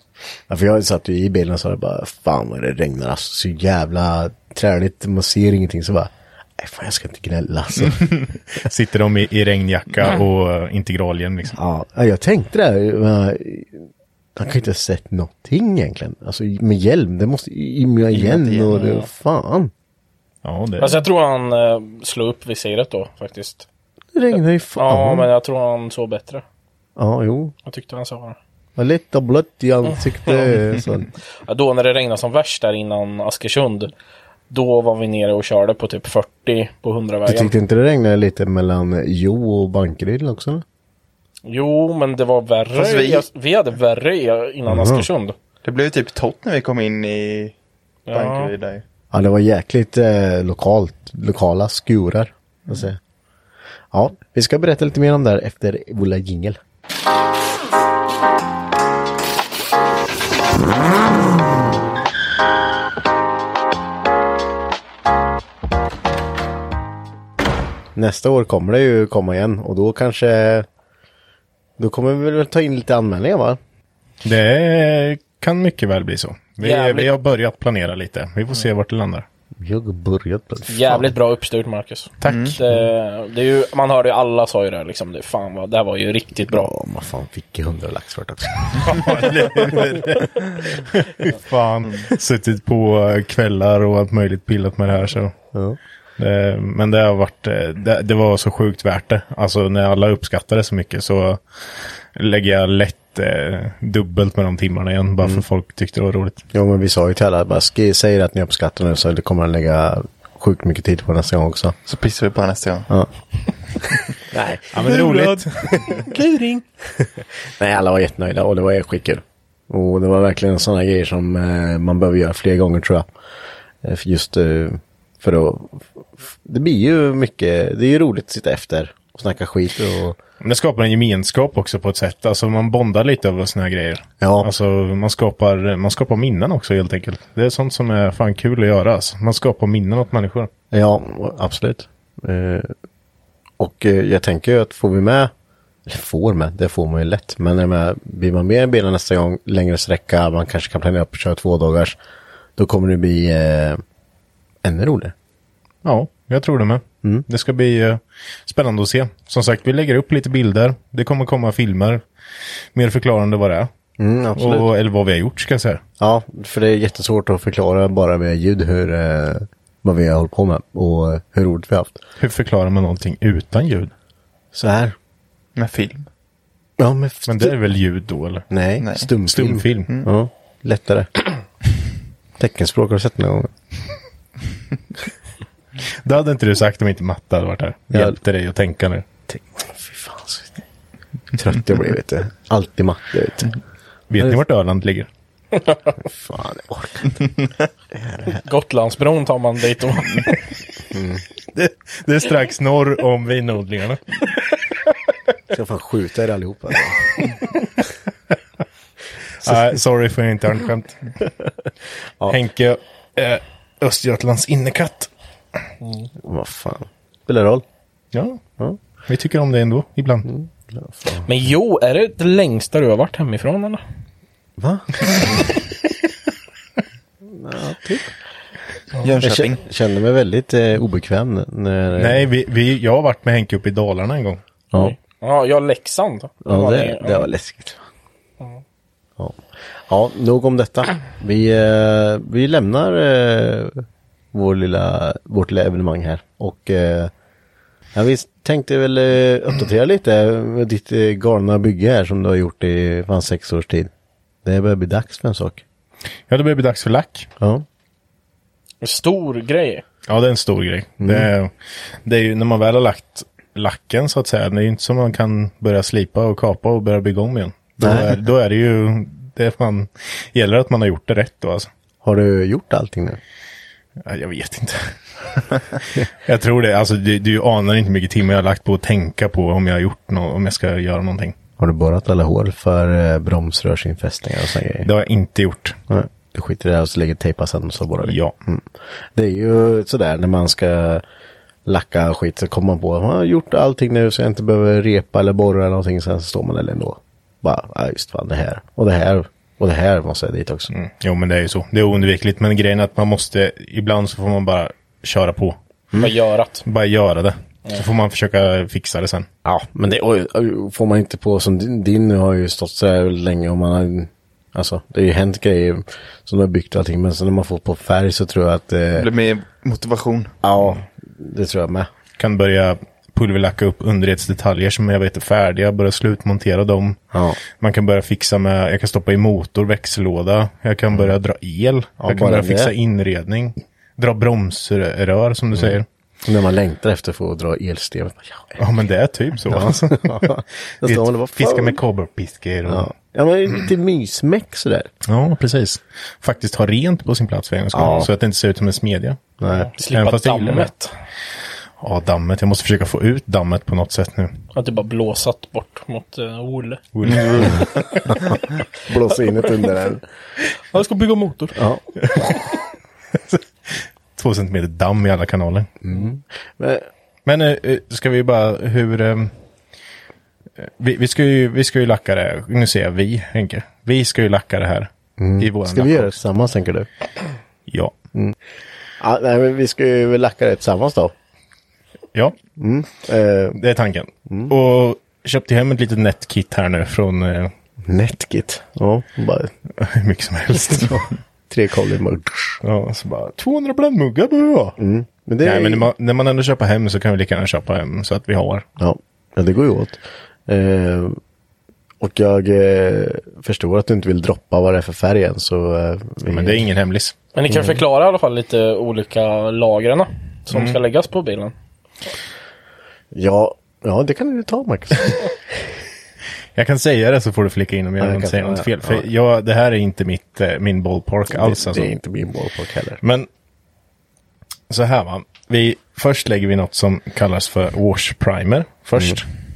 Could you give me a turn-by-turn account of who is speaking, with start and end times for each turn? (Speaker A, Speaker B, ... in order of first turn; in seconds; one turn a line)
Speaker A: 0.5-8.3
Speaker B: 8.5-11.6
Speaker A: 11.6-19.7
Speaker C: 18.1-18.7
Speaker D: 18.7-19.1
Speaker B: 20.4-21.0
Speaker D: 20.8-23.7
Speaker A: 24.1-25.3
Speaker D: 24.8-26.4
Speaker A: 27.0-27.6
Speaker D: 27.7-28.4
Speaker A: 28.8-31.1
Speaker D: 29.9-30.5
Speaker D: 31.5-33.9
Speaker D: 34.5-37.5
Speaker A: 37.3-40.6
Speaker D: 41.5-45.4
Speaker C: 42.7-43.3
Speaker A: 44.7-45.1
Speaker C: 45.6-47.5
Speaker D: 48.1-48.5
Speaker C: 48.1-48.8
Speaker A: 49.1-53.0
Speaker A: 53.9-56.6
Speaker A: 68.0-70.7
Speaker A: 71.8-73.6
Speaker B: 74.2-79.3
Speaker D: 76.6-77.2
Speaker A: 79.6-81.1
Speaker D: 80.7-86.7
Speaker B: 82.2-82.6
Speaker C: 82.3-82.6
Speaker A: 86.5-89.8
Speaker B: 88.8-95.3
Speaker B: 96.2-101.4
Speaker B: 102.1-106.4
Speaker A: 106.5-111.8
Speaker C: 111.9-112.9
Speaker A: 113.8-116.2
Speaker B: 114.7-115.8
Speaker D: 115.9-116.6
Speaker A: 116.8-123.1
Speaker A: 123.8-130.2
Speaker B: 130.4-140.5
Speaker A: 134.2-134.5
Speaker A: 140.7-142.7
Speaker A: 143.6-145.3
Speaker A: 145.9-152.0
Speaker A: 152.6-153.8
Speaker A: 154.6-155.1
Speaker B: 155.8-162.0
Speaker B: 162.7-163.7
Speaker A: 164.0-164.7
Speaker B: 164.4-165.8
Speaker A: 166.0-172.0
Speaker B: 172.2-173.9
Speaker A: 174.5-174.9
Speaker C: 175.6-176.1
Speaker A: 176.8-177.6
Speaker B: 177.3-178.5
Speaker A: 178.5-181.1
Speaker C: 178.8-179.1
Speaker B: 179.2-179.9
Speaker A: 182.4-183.5
Speaker B: 185.9-189.1
Speaker A: 187.9-188.2
Speaker A: 189.3-190.5
Speaker A: 191.3-193.6
Speaker B: 194.1-195.1
Speaker A: 196.0-197.3
Speaker A: 197.9-198.4
Speaker D: 198.3-200.4
Speaker A: 200.9-201.2
Speaker B: 201.5-204.3
Speaker A: 205.5-207.3
Speaker B: 209.4-211.2
Speaker A: 209.4-209.8
Speaker B: 212.3-215.1
Speaker A: 216.2-217.6
Speaker B: 218.1-218.4
Speaker B: 219.1-220.3
Speaker A: 220.2-221.3
Speaker D: 221.3-223.8
Speaker A: 224.6-225.4
Speaker A: 227.3-228.1
Speaker C: 229.0-229.6
Speaker A: 229.2-232.3
Speaker B: 232.0-234.4
Speaker D: 234.8-237.3
Speaker A: 236.4-237.8
Speaker A: 239.2-247.1
Speaker A: 247.9-253.9
Speaker A: 254.4-255.6
Speaker B: 256.3-257.3
Speaker A: 257.4-257.6
Speaker D: 258.8-259.8
Speaker B: 260.1-261.5
Speaker A: 261.0-261.3
Speaker B: 262.1-271.7
Speaker A: 267.8-268.2
Speaker A: 272.0-273.2
Speaker B: 274.0-281.4
Speaker A: 281.6-284.9
Speaker B: 284.8-285.8
Speaker A: 285.9-291.0
Speaker B: 288.0-288.3
Speaker A: 291.7-300.7
Speaker B: 300.7-305.6
Speaker D: 306.0-306.6
Speaker B: 306.6-309.3
Speaker A: 309.4-319.1
Speaker C: 318.9-320.3
Speaker A: 320.4-321.9
Speaker B: 322.2-327.0
Speaker A: 327.1-327.4
Speaker B: 327.6-335.9
Speaker A: 332.0-332.7
Speaker A: 335.5-338.6
Speaker B: 338.6-342.9
Speaker A: 339.4-341.8
Speaker A: 342.6-344.9
Speaker B: 345.1-349.2
Speaker A: 347.7-348.1
Speaker A: 349.4-349.7
Speaker D: 349.5-350.9
Speaker B: 349.9-350.7
Speaker B: 351.8-354.4
Speaker D: 354.5-356.8
Speaker B: 356.9-358.0
Speaker A: 357.4-360.1
Speaker D: 360.7-361.6
Speaker A: 361.6-361.8
Speaker B: 362.0-362.4
Speaker B: 363.1-365.7
Speaker A: 365.8-366.9
Speaker B: 367.3-369.3
Speaker B: 370.6-376.1
Speaker A: 375.2-376.9
Speaker B: 377.7-377.9
Speaker A: 379.0-381.1
Speaker A: 382.6-383.6
Speaker B: 383.6-387.5
Speaker A: 384.3-384.5
Speaker A: 387.8-389.5
Speaker B: 389.8-391.1
Speaker A: 390.5-392.6
Speaker B: 392.6-394.8
Speaker A: 394.8-395.9
Speaker B: 395.4-398.7
Speaker A: 398.8-401.2
Speaker A: 402.0-406.7
Speaker B: 406.3-407.1
Speaker D: 407.4-411.5
Speaker A: 407.5-407.8
Speaker B: 410.5-410.8
Speaker A: 413.1-415.6
Speaker B: 416.6-421.9
Speaker A: 418.0-419.1
Speaker A: 421.3-423.0
Speaker B: 423.0-423.3
Speaker B: 424.7-429.3